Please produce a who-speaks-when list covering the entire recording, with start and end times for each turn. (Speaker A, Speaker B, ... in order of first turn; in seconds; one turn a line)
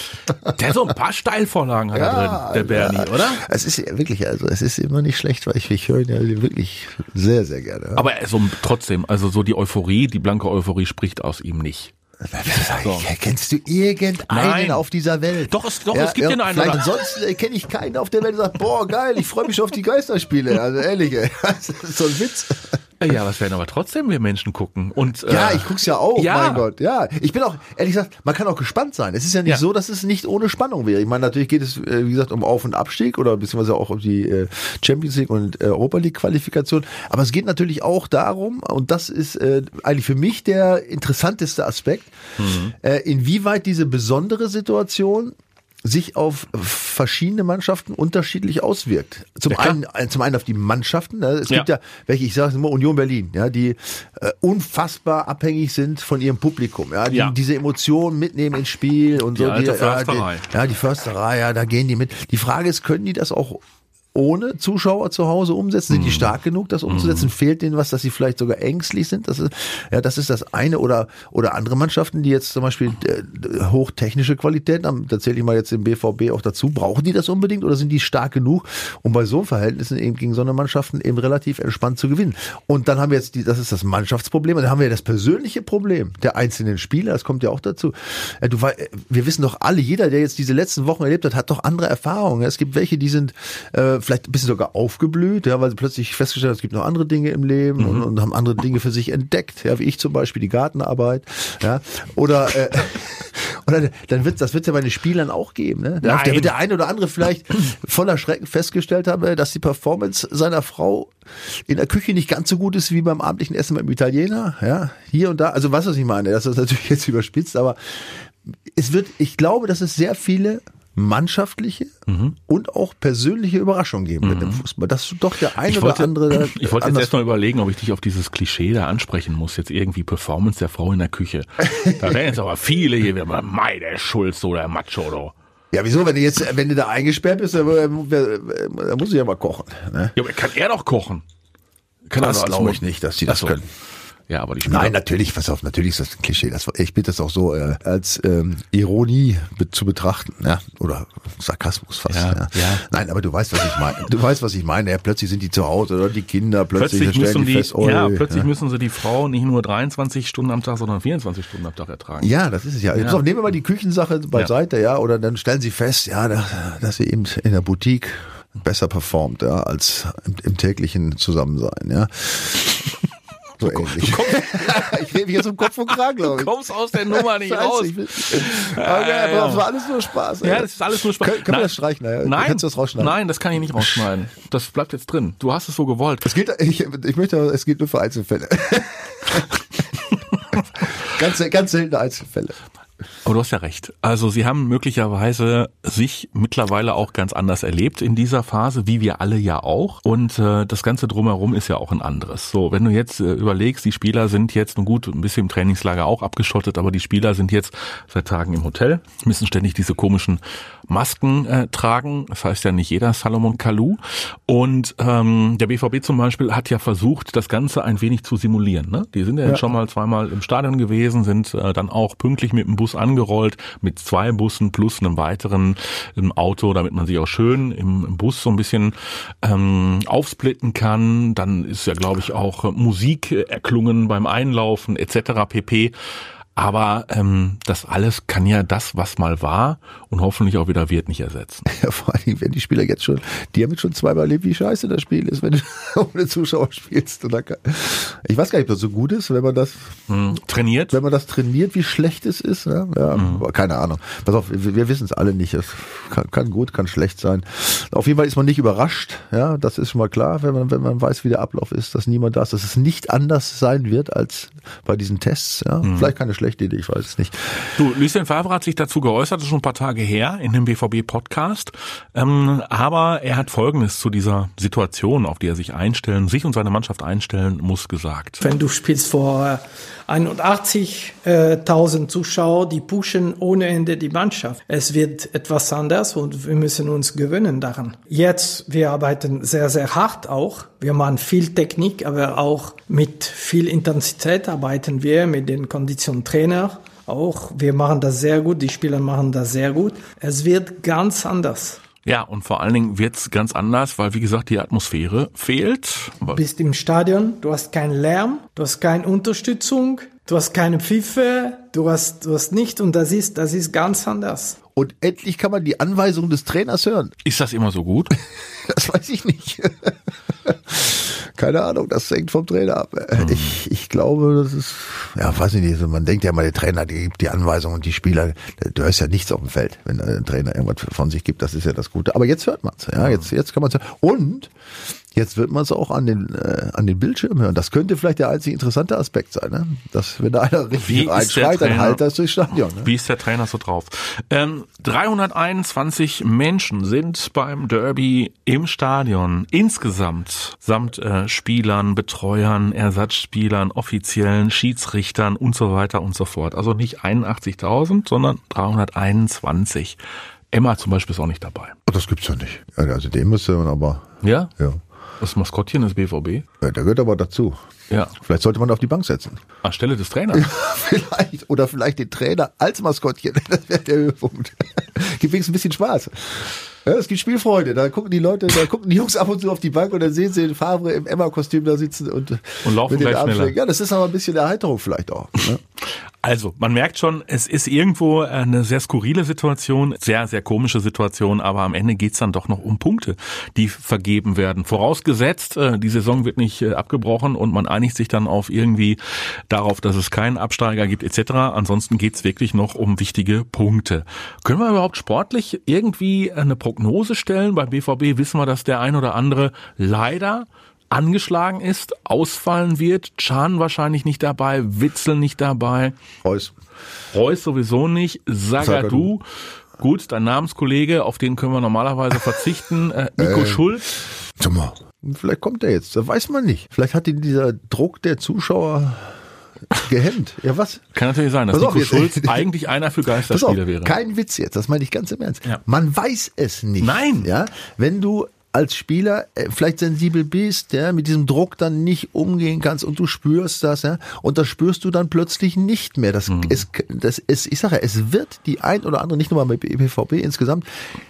Speaker A: 0.5-3.4
Speaker B: 1.9-8.1
Speaker A: 7.9-11.9
Speaker B: 12.2-22.8
Speaker A: 12.8-13.1
Speaker A: 14.3-14.8
Speaker A: 15.5-16.8
Speaker A: 23.0-26.7
Speaker B: 25.2-42.1
Speaker A: 42.4-42.7
Speaker B: 42.7-63.6
Speaker A: 49.5-49.8
Speaker A: 57.1-57.3
Speaker A: 59.2-60.5
Speaker B: 64.1-121.9
Speaker A: 65.9-66.3
Speaker A: 66.9-67.3
Speaker A: 97.8-98.1
Speaker A: 106.0-106.5
Speaker A: 122.1-122.3
Speaker B: 122.5-127.1
Speaker A: 124.2-124.6
Speaker A: 125.6-135.3
Speaker B: 131.7-132.2
Speaker B: 135.7-140.1
Speaker A: 140.1-141.2
Speaker A: 142.1-143.5
Speaker B: 142.2-143.7
Speaker A: 144.3-144.9
Speaker B: 144.6-158.5
Speaker A: 152.1-152.8
Speaker A: 156.7-162.3
Speaker B: 162.2-172.9
Speaker A: 162.9-163.2
Speaker B: 173.6-183.2
Speaker A: 173.6-175.1
Speaker A: 175.9-179.7
Speaker A: 180.4-186.3
Speaker B: 183.8-184.1
Speaker B: 186.2-190.0
Speaker B: 190.5-192.6
Speaker A: 193.2-235.9
Speaker A: 236.6-241.6
Speaker B: 241.7-249.9
Speaker A: 250.1-251.0
Speaker B: 250.9-267.7
Speaker A: 253.1-253.4
Speaker A: 265.8-266.1
Speaker A: 267.7-278.4
Speaker C: 278.4-301.8
Speaker A: 302.0-306.4
Speaker C: 306.3-314.6
Speaker B: 314.8-317.1
Speaker A: 317.2-318.2
Speaker B: 318.4-319.9
Speaker B: 320.4-334.5
Speaker A: 323.1-323.5
Speaker B: 335.1-342.9
Speaker A: 340.8-342.0
Speaker A: 342.8-360.0
Speaker A: 360.5-361.7
Speaker B: 361.9-364.8
Speaker A: 364.2-364.5
Speaker A: 365.2-366.4
Speaker B: 366.6-367.6
Speaker B: 368.1-369.4
Speaker A: 369.6-370.5
Speaker B: 370.3-385.6
Speaker A: 382.6-383.6
Speaker A: 386.2-415.9
Speaker B: 416.2-416.5
Speaker A: 417.1-419.2
Speaker B: 418.6-419.1
Speaker A: 419.8-423.9
Speaker B: 423.2-423.7
Speaker B: 424.4-429.2
Speaker B: 429.7-430.9
Speaker A: 430.9-433.9
Speaker B: 431.5-432.5
Speaker B: 433.2-450.6
Speaker A: 436.8-437.3
Speaker A: 446.3-446.6